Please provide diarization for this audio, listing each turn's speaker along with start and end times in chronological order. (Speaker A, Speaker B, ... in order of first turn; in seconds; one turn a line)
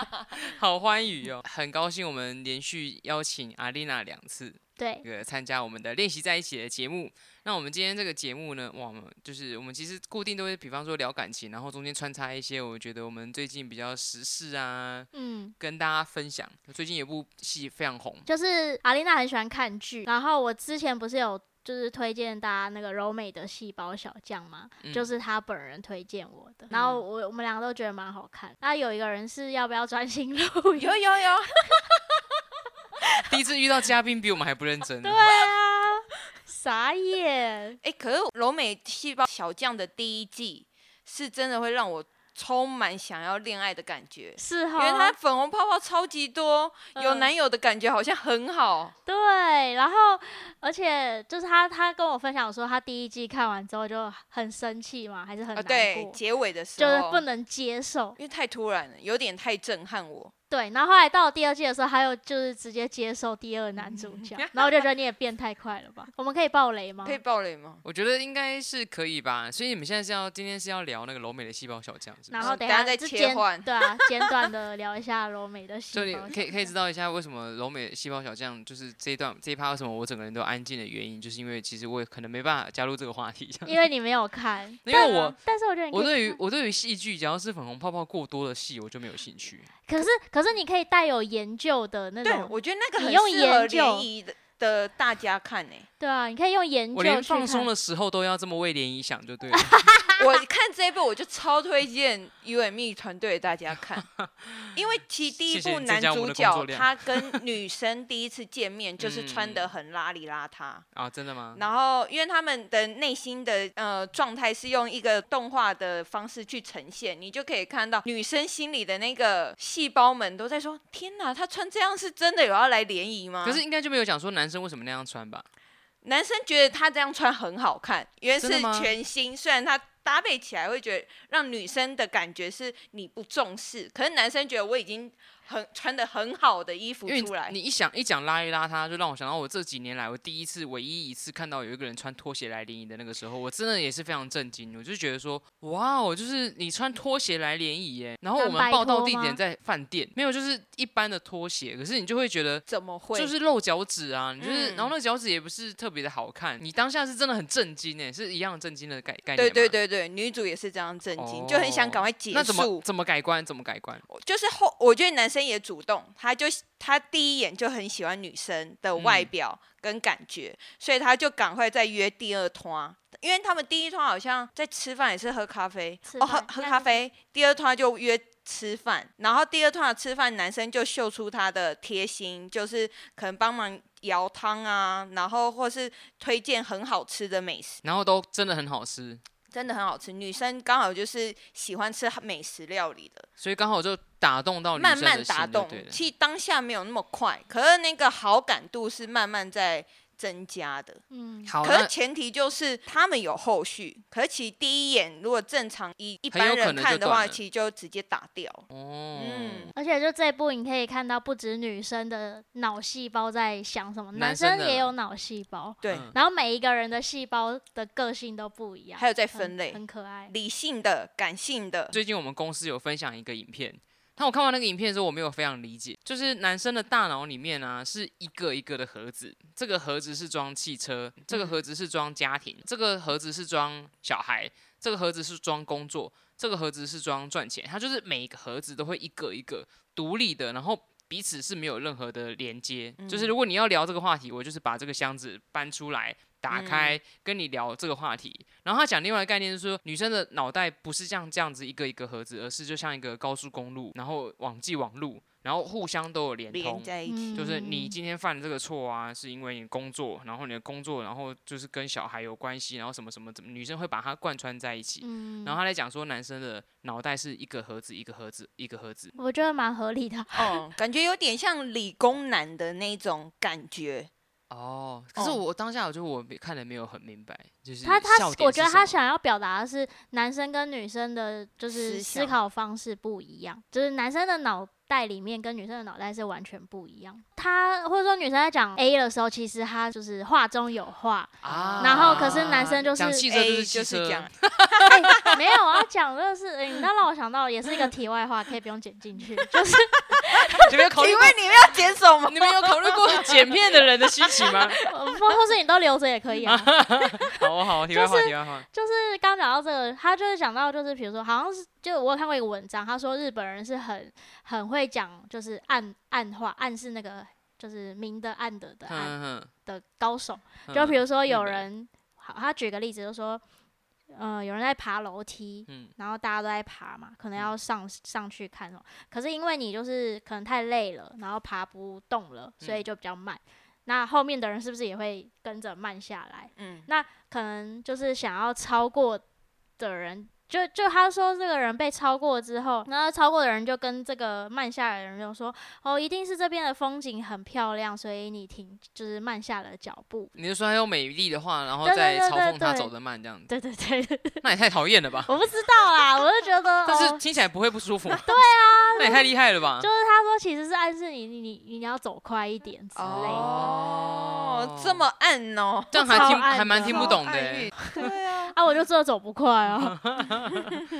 Speaker A: 0.3-18.3
Speaker B: 4.8-5.0
Speaker B: 15.1-15.6
Speaker B: 18.3-31.0
Speaker A: 24.8-25.1
Speaker C: 26.7-27.0
Speaker C: 30.8-31.8
Speaker A: 33.3-35.3
Speaker B: 35.0-37.8
Speaker C: 37.8-48.9
Speaker B: 44.4-45.1
Speaker B: 47.0-47.3
Speaker B: 49.1-56.2
Speaker C: 55.6-57.2
Speaker B: 56.8-58.2
Speaker C: 58.2-60.3
Speaker B: 60.5-67.2
Speaker C: 63.8-64.9
Speaker C: 67.0-67.8
Speaker A: 67.8-72.5
Speaker B: 72.3-76.7
Speaker C: 72.4-74.3
Speaker A: 75.9-83.8
Speaker B: 83.7-86.4
Speaker A: 84.8-85.4
Speaker A: 85.9-89.7
Speaker B: 89.9-94.1
Speaker C: 92.2-95.9
Speaker B: 96.0-97.7
Speaker A: 96.9-99.9
Speaker B: 99.5-100.2
Speaker C: 100.2-104.1
Speaker A: 104.0-104.8
Speaker C: 104.7-110.8
Speaker A: 105.4-107.4
Speaker A: 109.0-109.7
Speaker A: 110.9-111.7
Speaker C: 111.5-123.6
Speaker A: 123.4-125.5
Speaker C: 126.0-137.5
Speaker A: 128.4-128.9
Speaker A: 137.1-159.8
Speaker B: 148.3-149.4
Speaker C: 152.7-153.3
Speaker C: 154.4-154.9
Speaker C: 159.4-162.8
Speaker A: 161.2-164.0
Speaker C: 164.1-187.8
Speaker A: 169.0-169.3
Speaker B: 176.1-177.0
Speaker A: 187.8-189.2
Speaker C: 189.5-193.3
Speaker A: 193.4-196.0
Speaker C: 194.8-201.0
Speaker B: 201.1-201.5
Speaker A: 201.5-201.9
Speaker C: 201.6-209.7
Speaker A: 206.3-207.4
Speaker A: 208.7-209.7
Speaker B: 209.8-220.3
Speaker A: 214.2-214.9
Speaker C: 215.8-216.1
Speaker A: 215.9-216.2
Speaker C: 219.0-222.0
Speaker A: 221.9-269.1
Speaker C: 231.3-231.6
Speaker C: 243.0-243.3
Speaker C: 246.5-247.0
Speaker C: 256.5-257.4
Speaker B: 257.1-257.9
Speaker B: 265.0-265.6
Speaker B: 269.1-270.6
Speaker C: 270.4-274.1
Speaker A: 274.5-279.0
Speaker C: 275.1-275.4
Speaker B: 277.8-293.2
Speaker C: 281.7-282.4
Speaker A: 291.4-295.4
Speaker C: 291.5-292.6
Speaker C: 293.2-295.4
Speaker B: 294.9-300.7
Speaker C: 300.5-304.9
Speaker A: 300.6-301.5
Speaker A: 302.2-304.8
Speaker B: 304.9-323.4
Speaker A: 306.4-308.6
Speaker A: 318.9-319.5
Speaker A: 320.7-321.6
Speaker B: 324.1-339.2
Speaker A: 325.7-325.9
Speaker C: 336.6-336.9
Speaker B: 339.8-350.3
Speaker A: 350.4-353.5
Speaker B: 351.8-352.9
Speaker B: 353.5-354.4
Speaker A: 354.4-355.3
Speaker B: 355.2-357.2
Speaker A: 356.9-358.4
Speaker B: 358.2-363.7
Speaker A: 359.0-359.9
Speaker C: 362.9-368.6
Speaker A: 363.1-365.0
Speaker A: 365.9-367.8
Speaker B: 366.0-367.2
Speaker B: 367.8-370.0
Speaker A: 369.8-370.8